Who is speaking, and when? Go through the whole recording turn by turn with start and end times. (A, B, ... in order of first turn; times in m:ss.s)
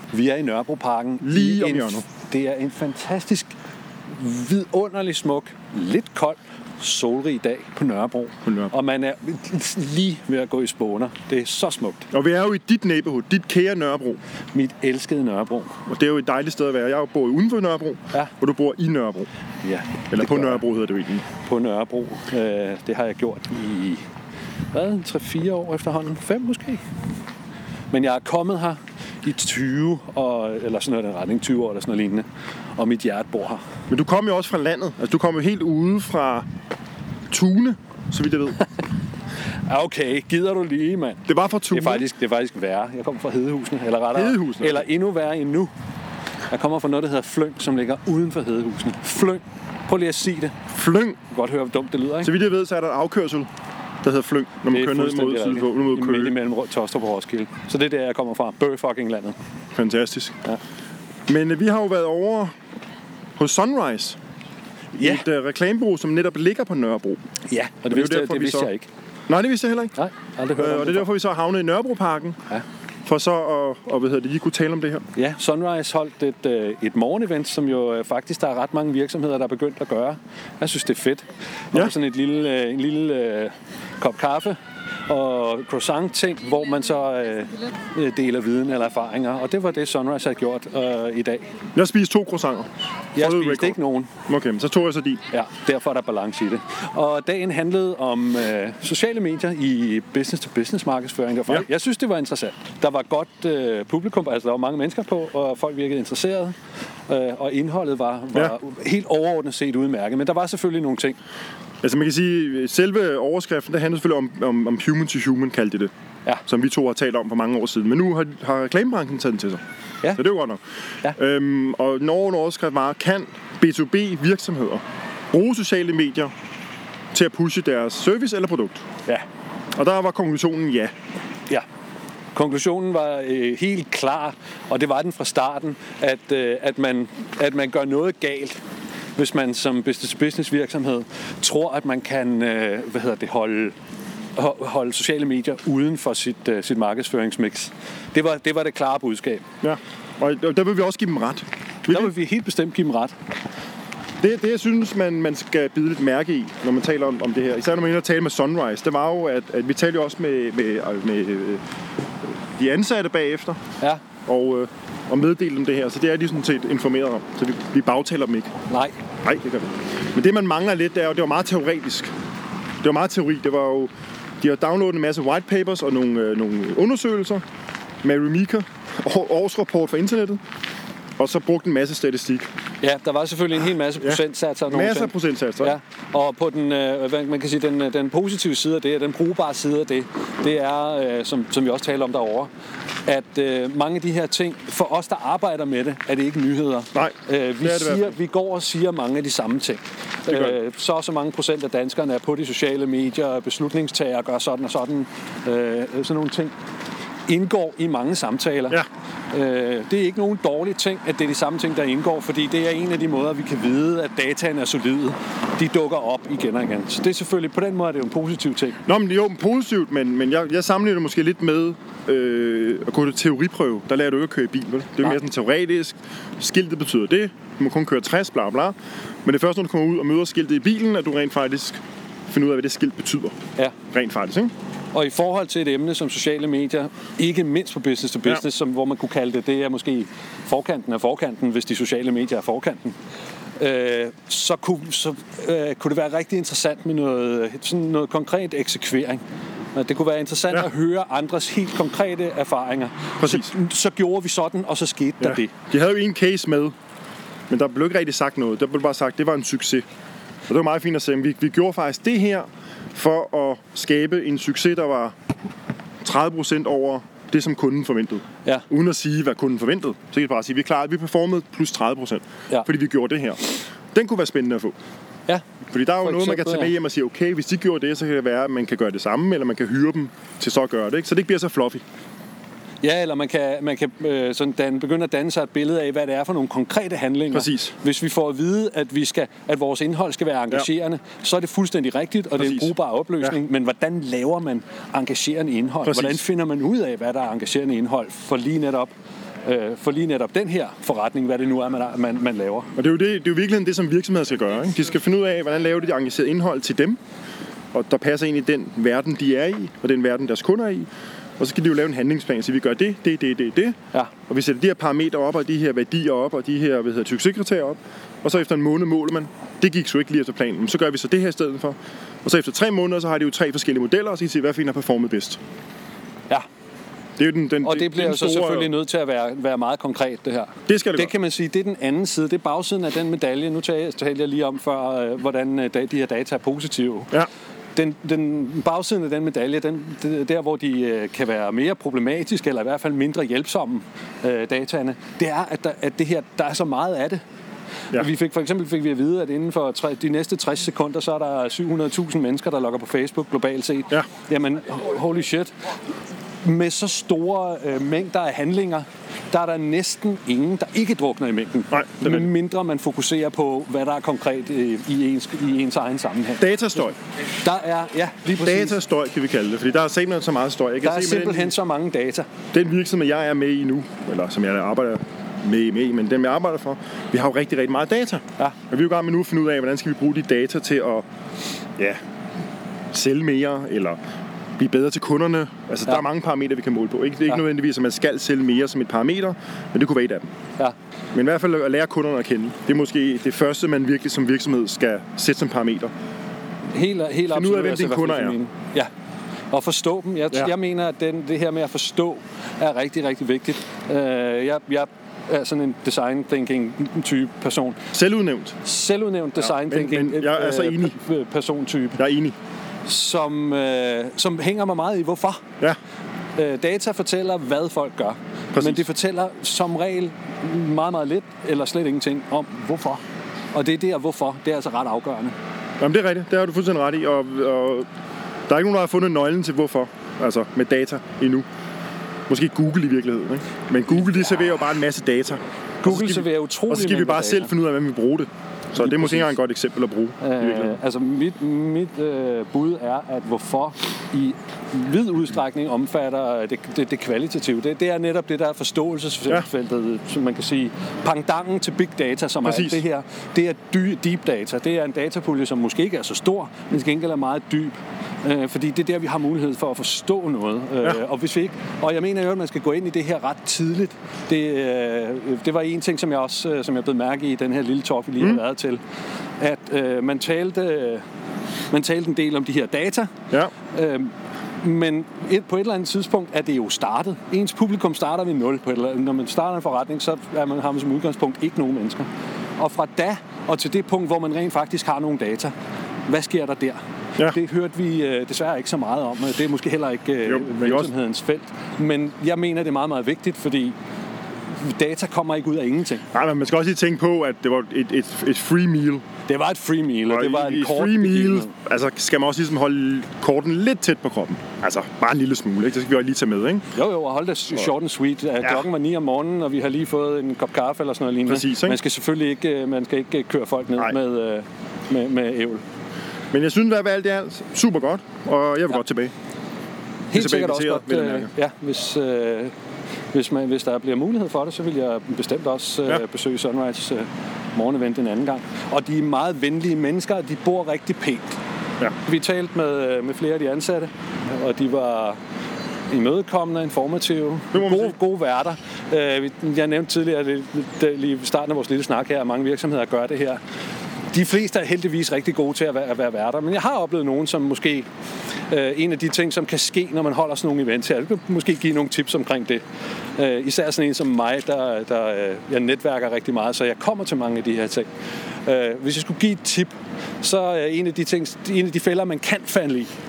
0:00.1-0:03.5 A
0:01.2-0:02.0 B
0:04.1-0:12.1 A
0:08.4-0:08.7 B
0:12.1-0:14.2 B
0:14.5-0:15.8 A
0:15.9-0:19.3 B
0:19.6-0:20.6 A
0:20.1-0:21.3 B
0:21.4-0:24.0 A
0:24.7-0:26.8 A
0:27.9-0:32.3 A
0:32.8-0:33.6 A
0:33.9-0:36.5 B
0:37.3-0:38.6 B
0:39.7-0:45.7 A
0:41.3-0:42.1 B
0:44.1-0:44.9 B
0:46.5-0:50.6 A
0:50.7-0:51.2 B
0:51.3-0:52.3 A
0:52.2-0:53.5 B
0:54.0-0:56.4 B
0:54.7-0:59.4 A
0:59.8-1:00.4 B
1:01.3-1:02.5 B
1:03.4-1:04.2 B
1:05.0-1:05.2 A
1:05.0-1:07.2 B
1:07.5-1:08.9 A
1:07.9-1:08.7 B
1:09.3-1:10.0 B
1:10.0-1:11.1 A
1:10.6-1:12.4 B
1:13.0-1:15.0 B
1:15.2-1:31.4 A
1:31.8-1:35.2 B
1:33.2-1:34.1 A
1:35.3-1:46.6 A
1:47.1-1:51.2 A
1:51.8-1:55.9 B
1:56.5-1:59.6 B
2:00.1-2:06.3 B
2:07.1-2:08.8 B
2:09.8-2:10.9 B
2:12.3-2:18.6 A
2:19.2-2:23.8 A
2:24.4-2:29.4 A
2:29.6-2:32.1 B
2:31.9-2:33.1 A
2:34.2-2:41.6 B
2:42.6-2:43.6 B
2:44.3-2:48.5 B
2:48.7-2:49.0 A
2:49.2-2:52.1 B
2:52.8-2:53.9 B
2:54.4-2:57.4 B
2:58.0-3:00.4 B
3:01.2-3:02.5 B
3:02.8-3:12.5 A
3:04.0-3:05.8 B
3:13.1-3:26.5 A
3:17.0-3:18.2 B
3:20.3-3:20.6 B
3:27.3-3:38.8 A
3:38.8-3:53.4 B
3:53.9-3:54.5 B
3:54.9-4:03.0 A
4:03.6-4:09.2 A
4:09.8-4:15.5 A
4:13.2-4:13.5 B
4:15.2-4:16.7 B
4:17.5-4:19.8 B
4:20.5-4:25.1 B
4:26.0-4:34.8 B
4:35.7-4:41.8 B
4:36.0-4:36.7 A
4:42.8-4:58.9 A
4:47.3-4:47.7 B
4:52.4-4:52.7 B
4:55.8-4:56.2 B
4:59.4-5:02.7 A
5:02.8-5:07.0 B
5:07.7-5:10.9 B
5:11.4-5:13.8 B
5:14.3-5:25.4 B
5:27.2-5:28.7 B
5:27.6-5:37.2 A
5:30.7-5:31.1 B
5:37.8-5:47.2 A
5:47.9-5:55.5 A
5:56.4-6:06.5 A
6:01.7-6:02.3 B
6:06.4-6:07.0 B
6:07.4-6:08.8 A
6:08.4-6:11.5 B
6:10.8-6:12.3 A
6:12.5-6:21.0 B
6:22.9-6:24.0 B
6:24.6-6:30.3 B
6:31.1-6:35.9 B
6:36.7-6:38.9 A
6:37.3-6:38.4 B
6:39.5-6:47.8 A
6:47.9-6:48.6 B
6:48.6-6:52.0 A
6:49.4-6:51.0 B
6:52.0-6:52.4 B
6:52.9-6:55.4 A
6:56.4-7:03.0 A
6:58.5-6:58.8 B
7:03.5-7:05.4 A
7:05.8-7:07.9 B
7:08.5-7:11.5 B
7:12.3-7:20.8 B
7:15.8-7:17.5 A
7:18.8-7:19.3 A
7:20.2-7:48.8 A
7:32.4-7:32.8 B
7:49.4-7:51.0 A
7:51.7-7:53.1 A
7:53.7-8:02.1 A
8:02.6-8:05.5 A
8:06.1-8:13.8 A
8:10.3-8:10.9 B
8:14.5-8:16.0 A
8:16.1-8:19.0 B
8:19.3-8:21.5 A
8:20.1-8:26.6 B
8:26.7-8:35.6 A
8:31.3-8:31.8 B
8:36.3-8:39.1 B
8:40.1-8:42.5 A
8:40.1-8:41.3 B
8:43.1-8:51.4 A
8:52.0-8:55.2 A
8:55.9-9:03.4 A
8:57.5-8:58.0 B
9:04.1-9:07.9 A
9:08.5-9:12.6 A
9:13.2-9:17.9 A
9:18.4-9:22.9 A